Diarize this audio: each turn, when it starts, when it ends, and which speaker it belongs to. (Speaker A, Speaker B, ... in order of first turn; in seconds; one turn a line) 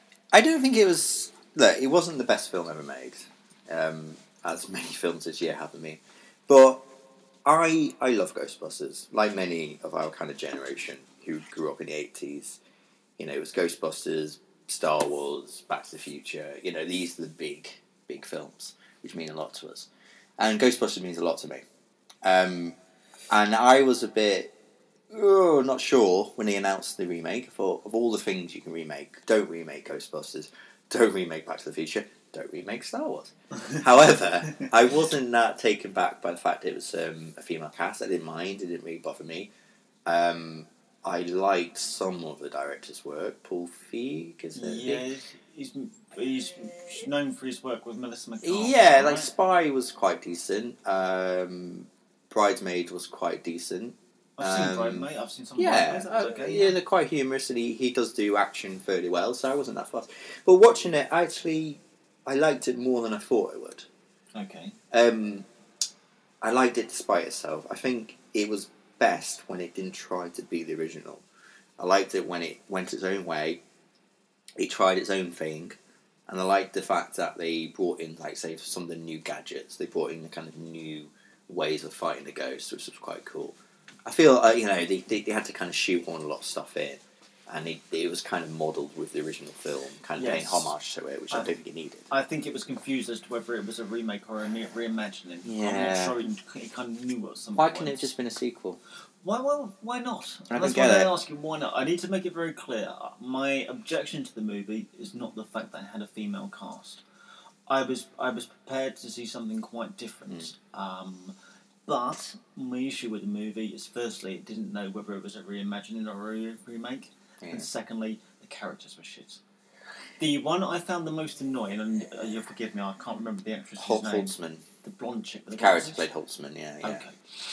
Speaker A: 0.3-6.8
Speaker A: 7.4-12.6
Speaker A: 13.2-19.9
Speaker A: 20.4-21.6
Speaker A: 22.2-22.8
Speaker A: 23.3-24.5
Speaker A: 25.1-39.5
Speaker A: 40.0-45.1
Speaker B: 44.5-49.3
Speaker A: 48.4-63.9
Speaker B: 54.4-56.8
Speaker B: 64.3-64.8
Speaker A: 64.9-65.5
Speaker A: 66.4-71.2
Speaker A: 71.8-73.6
Speaker A: 74.6-75.8
Speaker A: 76.3-83.5
Speaker A: 84.0-92.1
Speaker B: 90.2-90.7
Speaker B: 92.1-98.1
Speaker A: 95.4-96.2
Speaker A: 97.5-98.8
Speaker B: 99.2-107.0
Speaker A: 100.5-101.1
Speaker B: 107.7-111.3
Speaker B: 111.8-119.4
Speaker A: 117.4-117.7
Speaker B: 120.2-126.0
Speaker A: 123.8-124.7
Speaker A: 125.5-127.0
Speaker B: 126.8-127.1